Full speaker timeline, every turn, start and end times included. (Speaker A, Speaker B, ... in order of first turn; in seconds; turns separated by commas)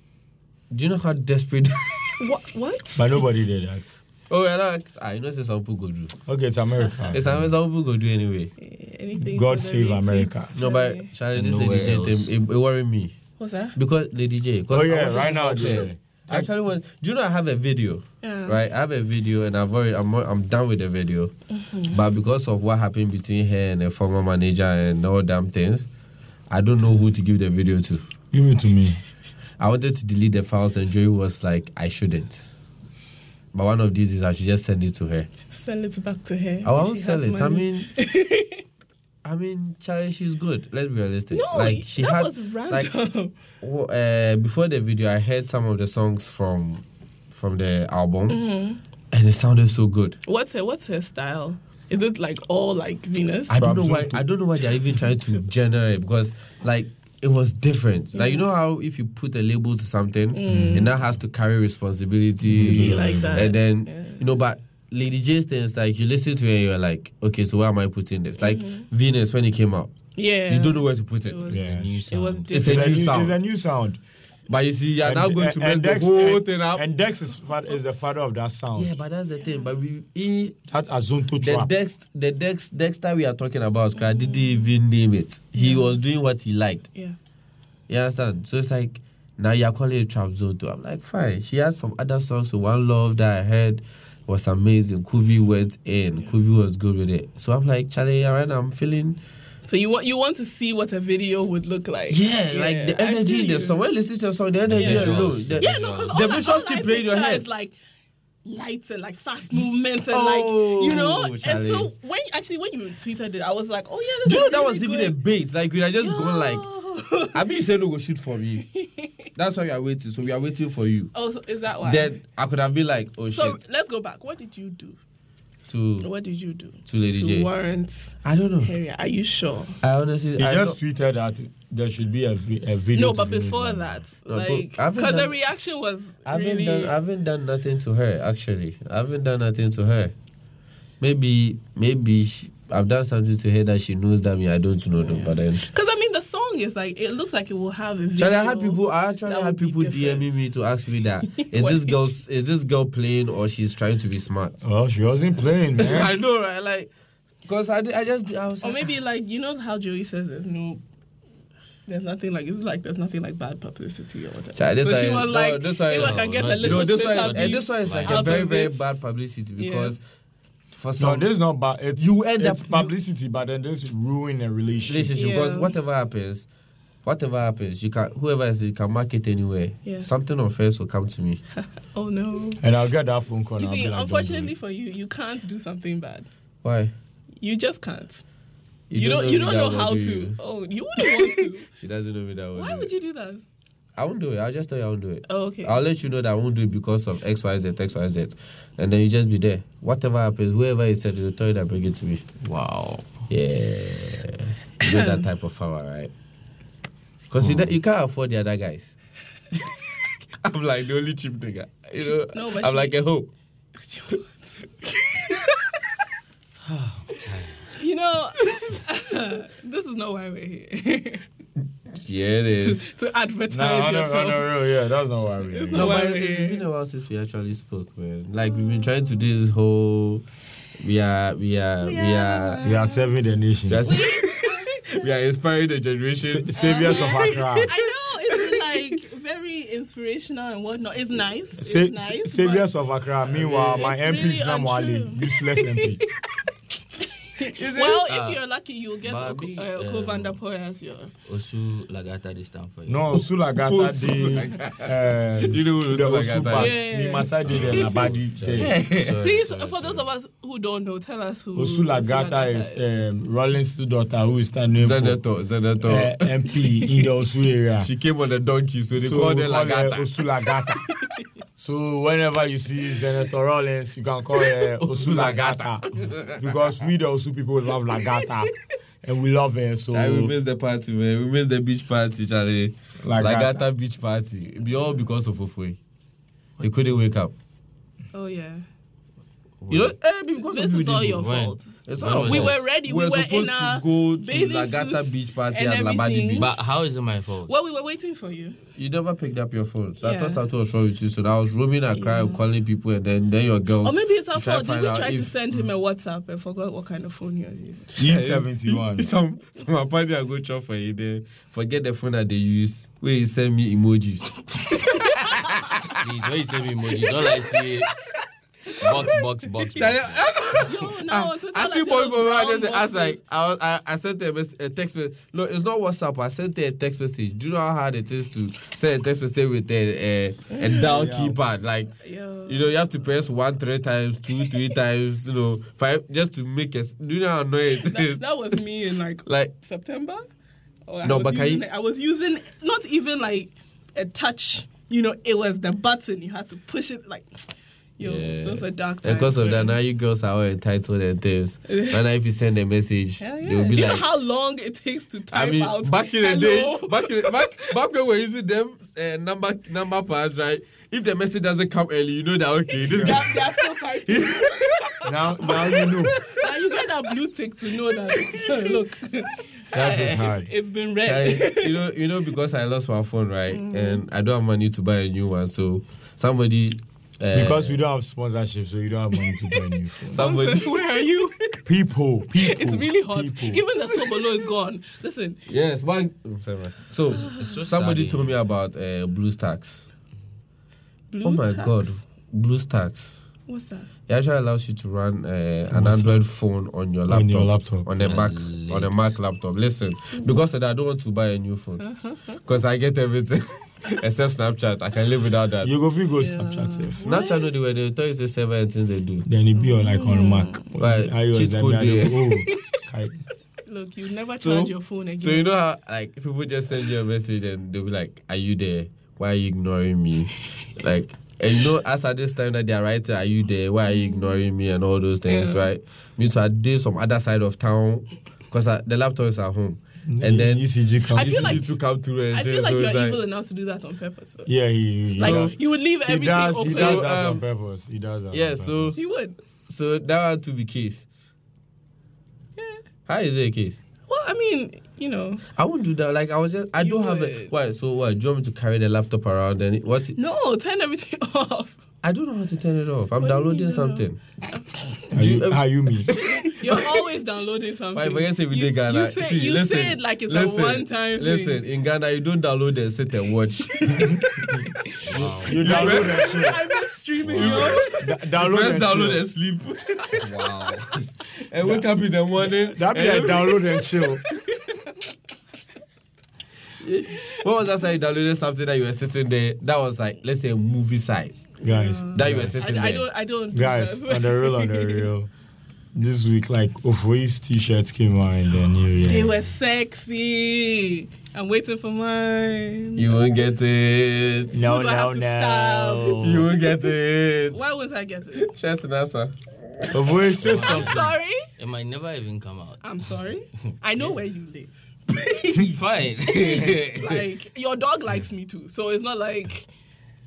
Speaker A: 0.7-2.0, Speaker B: 2.2-3.1, Speaker C: 2.9-3.9, Speaker A: 4.3-6.1, Speaker C: 6.1-7.3, Speaker A: 7.1-8.5, Speaker B: 8.6-11.1, Speaker C: 9.2-10.5, Speaker A: 10.5-13.1, Speaker D: 11.3-12.3, Speaker B: 13.4-13.8, Speaker A: 13.7-21.3, Speaker C: 14.7-16.5, Speaker B: 18.2-18.6, Speaker B: 21.5-22.0, Speaker A: 21.8-25.9, Speaker A: 26.5-28.1, Speaker C: 28.3-29.0, Speaker A: 29.6-32.5, Speaker A: 33.5-35.3, Speaker B: 35.5-38.6, Speaker A: 36.6-37.9, Speaker A: 39.2-42.9, Speaker B: 41.3-43.3, Speaker A: 43.6-48.4, Speaker B: 48.3-48.8, Speaker A: 49.1-50.2, Speaker B: 50.2-53.5, Speaker A: 53.5-69.9, Speaker C: 53.5-54.3, Speaker B: 58.1-58.4, Speaker B: 60.3-60.9, Speaker C: 60.5-60.8, Speaker C: 62.5-63.3, Speaker B: 62.6-64.2, Speaker B: 68.4-68.9, Speaker B: 70.1-73.1, Speaker A: 70.5-71.5, Speaker C: 71.5-71.8, Speaker D: 71.5-72.5, Speaker A: 72.5-73.3, Speaker C: 72.5-74.0, Speaker A: 74.5-76.8, Speaker C: 75.0-79.0, Speaker A: 78.8-80.5, Speaker B: 79.4-79.7, Speaker C: 80.7-81.7, Speaker A: 81.4-86.9, Speaker B: 84.0-84.5, Speaker B: 85.5-86.0, Speaker A: 87.9-99.2, Speaker B: 99.6-103.8, Speaker A: 102.1-107.5, Speaker D: 104.7-106.4, Speaker B: 104.8-107.7, Speaker B: 108.4-115.2, Speaker A: 110.1-111.9, Speaker A: 114.2-116.7, Speaker B: 116.0-117.4, Speaker A: 117.3-118.6, Speaker B: 118.6-119.1, Speaker A: 119.3-121.1, Speaker B: 121.1-122.2, Speaker A: 121.8-123.6, Speaker B: 123.3-125.0, Speaker A: 125.7-126.1, Speaker B: 126.0-129.8, Speaker A: 126.8-127.5, Speaker A: 128.2-128.7, Speaker A: 129.8-130.8, Speaker C: 130.4-134.0, Speaker B: 132.9-136.9, Speaker A: 134.3-135.3, Speaker A: 136.2-140.1, Speaker A: 141.0-145.7, Speaker B: 145.1-150.3, Speaker A: 148.2-154.6, Speaker B: 151.2-152.2, Speaker C: 154.6-156.1, Speaker A: 155.8-156.9, Speaker A: 157.4-158.9, Speaker B: 158.6-160.8, Speaker B: 161.9-168.9, Speaker A: 164.6-170.0, Speaker D: 166.0-168.4, Speaker B: 169.6-170.0, Speaker A: 170.7-171.3, Speaker C: 171.0-175.1, Speaker A: 172.0-172.9, Speaker A: 174.8-176.5, Speaker B: 175.1-175.7, Speaker A: 177.0-181.4, Speaker B: 181.6-182.6, Speaker C: 182.6-184.5, Speaker B: 183.6-186.3, Speaker A: 186.6-186.9, Speaker B: 187.4-188.2, Speaker A: 188.9-190.3, Speaker B: 188.9-191.7, Speaker A: 191.8-192.9, Speaker B: 192.5-193.4, Speaker A: 193.9-202.2, Speaker B: 195.3-195.8, Speaker D: 202.4-203.2, Speaker A: 203.3-206.1, Speaker B: 204.8-205.2, Speaker A: 207.3-208.9, Speaker A: 210.4-213.3, Speaker B: 212.3-212.9, Speaker B: 213.8-214.5, Speaker B: 215.3-215.8, Speaker D: 216.6-217.7, Speaker B: 217.7-221.2, Speaker A: 222.0-222.9, Speaker B: 222.6-224.5, Speaker C: 223.5-225.9, Speaker B: 225.5-226.6, Speaker A: 225.7-230.2, Speaker B: 228.6-228.8, Speaker A: 230.8-232.7, Speaker B: 231.8-233.1, Speaker C: 232.6-233.9, Speaker A: 233.7-237.1, Speaker B: 233.8-234.8, Speaker C: 236.2-237.7, Speaker B: 236.6-242.7, Speaker C: 241.6-246.0, Speaker B: 243.6-246.1, Speaker B: 247.0-251.1, Speaker A: 247.5-248.0, Speaker D: 248.1-248.4, Speaker D: 249.0-250.4, Speaker D: 251.2-253.1, Speaker C: 252.9-258.7, Speaker A: 253.6-254.8, Speaker A: 255.4-256.8, Speaker B: 256.5-257.3, Speaker D: 257.5-260.1, Speaker A: 258.6-259.1, Speaker B: 259.1-262.8, Speaker C: 261.5-265.2, Speaker A: 264.8-266.9, Speaker C: 265.8-267.9, Speaker A: 267.8-270.1, Speaker C: 269.0-270.8, Speaker C: 271.6-275.8, Speaker A: 274.8-276.4, Speaker C: 276.4-278.5, Speaker C: 279.0-280.3, Speaker A: 279.9-285.8, Speaker C: 283.0-283.6, Speaker A: 286.6-287.3, Speaker B: 288.1-288.6, Speaker D: 289.6-289.9, Speaker A: 289.7-291.2, Speaker B: 290.4-296.5, Speaker D: 291.1-292.6, Speaker A: 291.9-296.5, Speaker D: 296.4-297.5, Speaker B: 297.4-298.6, Speaker A: 298.8-305.3, Speaker B: 300.0-300.4, Speaker B: 301.9-302.4, Speaker B: 303.8-308.0, Speaker C: 308.0-309.1, Speaker A: 308.0-316.0, Speaker D: 316.0-317.9, Speaker D: 318.8-320.3, Speaker A: 319.7-331.9, Speaker B: 320.5-323.2, Speaker B: 330.6-330.8, Speaker C: 330.7-331.4, Speaker B: 332.0-332.7, Speaker A: 332.4-338.6, Speaker B: 337.7-340.2, Speaker A: 339.2-339.5, Speaker B: 340.9-347.4, Speaker A: 341.0-341.6, Speaker B: 348.0-349.8, Speaker A: 348.0-354.1, Speaker B: 351.7-352.0, Speaker B: 353.2-357.8, Speaker A: 355.3-363.3, Speaker B: 362.8-365.1, Speaker C: 362.9-363.2, Speaker A: 364.0-364.7, Speaker C: 365.0-366.2, Speaker B: 365.9-371.8, Speaker A: 369.7-370.3, Speaker C: 369.8-370.5, Speaker A: 371.0-377.8, Speaker B: 373.5-374.0, Speaker C: 377.3-380.2, Speaker B: 380.1-381.6, Speaker A: 380.1-380.8, Speaker C: 381.6-383.6, Speaker B: 382.3-385.4, Speaker A: 385.5-389.9, Speaker B: 387.2-387.5, Speaker D: 387.4-388.4, Speaker B: 391.1-391.9, Speaker A: 391.2-393.2, Speaker B: 393.5-393.9, Speaker A: 394.1-401.9, Speaker C: 395.7-396.2, Speaker C: 397.1-397.9, Speaker D: 398.0-399.1, Speaker B: 401.8-402.4, Speaker A: 402.4-405.7, Speaker C: 405.6-407.0, Speaker B: 406.2-407.5, Speaker A: 407.0-409.2, Speaker C: 409.2-413.2, Speaker B: 409.6-410.7, Speaker A: 410.8-412.2, Speaker B: 412.4-412.8, Speaker B: 413.6-415.4, Speaker A: 414.4-433.2, Speaker B: 423.9-424.4, Speaker B: 425.3-425.6, Speaker C: 430.1-431.6, Speaker B: 431.1-431.7, Speaker B: 432.3-434.5, Speaker C: 434.5-438.9, Speaker B: 435.2-437.1, Speaker A: 435.2-435.5, Speaker A: 436.6-437.4, Speaker A: 438.3-439.0, Speaker B: 438.9-439.4, Speaker A: 439.7-441.0, Speaker B: 442.6-442.8, Speaker A: 443.1-443.8, Speaker B: 444.1-445.4, Speaker A: 445.6-450.2, Speaker B: 446.8-447.5, Speaker B: 450.1-451.8, Speaker A: 452.0-454.2, Speaker B: 453.2-455.1, Speaker C: 455.1-456.1, Speaker A: 455.1-457.0, Speaker B: 456.2-461.6, Speaker A: 457.9-464.1, Speaker B: 463.7-464.5, Speaker C: 463.9-464.5, Speaker D: 465.0-466.0, Speaker C: 465.2-466.6, Speaker B: 465.2-468.1, Speaker A: 465.6-466.3, Speaker D: 467.2-467.8, Speaker A: 467.3-473.6, Speaker C: 467.4-469.2, Speaker C: 472.4-474.2, Speaker A: 476.8-481.5, Speaker B: 481.6-485.1, Speaker C: 481.6-482.5, Speaker A: 482.1-483.1, Speaker C: 483.5-485.3, Speaker C: 485.9-489.5, Speaker B: 489.0-493.1, Speaker A: 492.9-494.5, Speaker C: 494.5-496.5, Speaker B: 494.5-496.9, Speaker A: 496.2-497.6, Speaker B: 497.5-498.5, Speaker A: 498.4-499.9, Speaker C: 499.9-501.1, Speaker D: 500.4-503.1, Speaker B: 500.6-501.4, Speaker B: 502.8-505.7, Speaker D: 505.5-507.2, Speaker B: 506.3-509.7